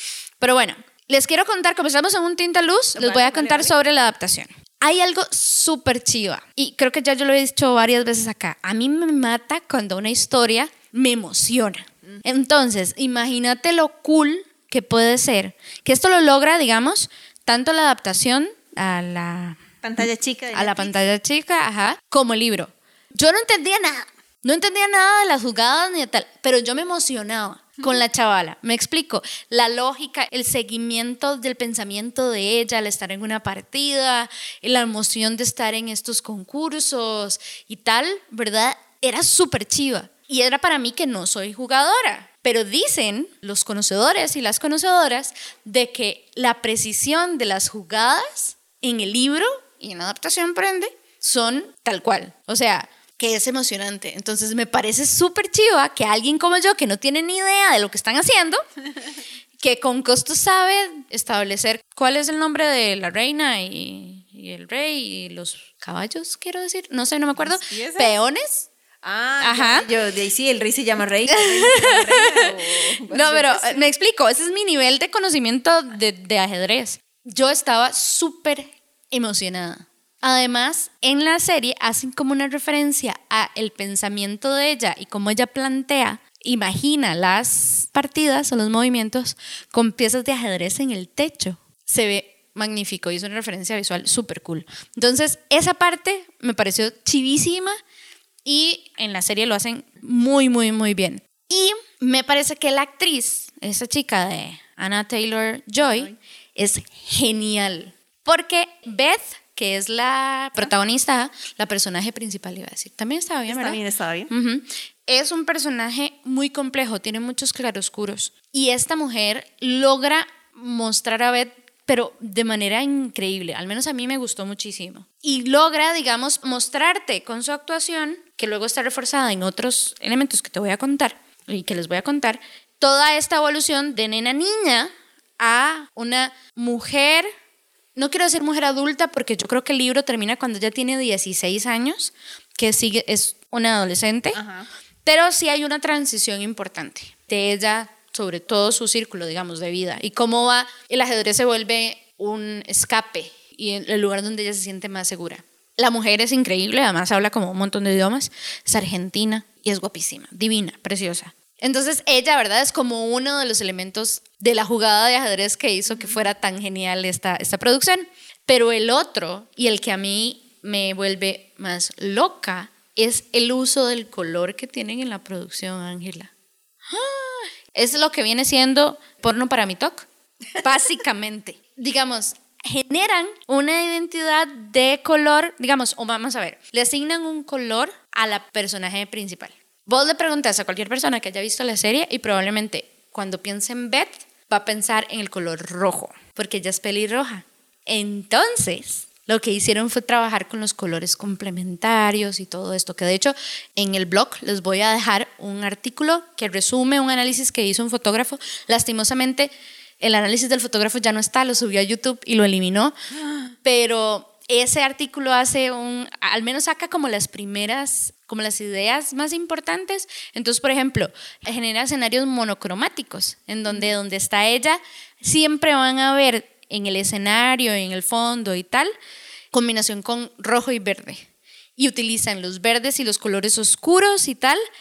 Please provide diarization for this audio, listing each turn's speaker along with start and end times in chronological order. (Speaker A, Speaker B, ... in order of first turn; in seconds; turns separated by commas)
Speaker A: 0.4-19.6, Speaker B: 3.0-3.8, Speaker B: 19.8-21.0, Speaker A: 20.5-58.6, Speaker A: 59.6-68.7, Speaker B: 67.4-68.1, Speaker B: 69.0-73.8, Speaker A: 69.4-69.9, Speaker A: 71.3-97.8, Speaker A: 98.5-137.3, Speaker B: 105.8-106.2, Speaker B: 113.5-114.3, Speaker A: 137.9-144.4, Speaker B: 144.3-144.7, Speaker A: 145.1-176.3, Speaker B: 165.9-166.2, Speaker A: 176.9-212.9, Speaker A: 213.6-228.9, Speaker A: 229.5-234.6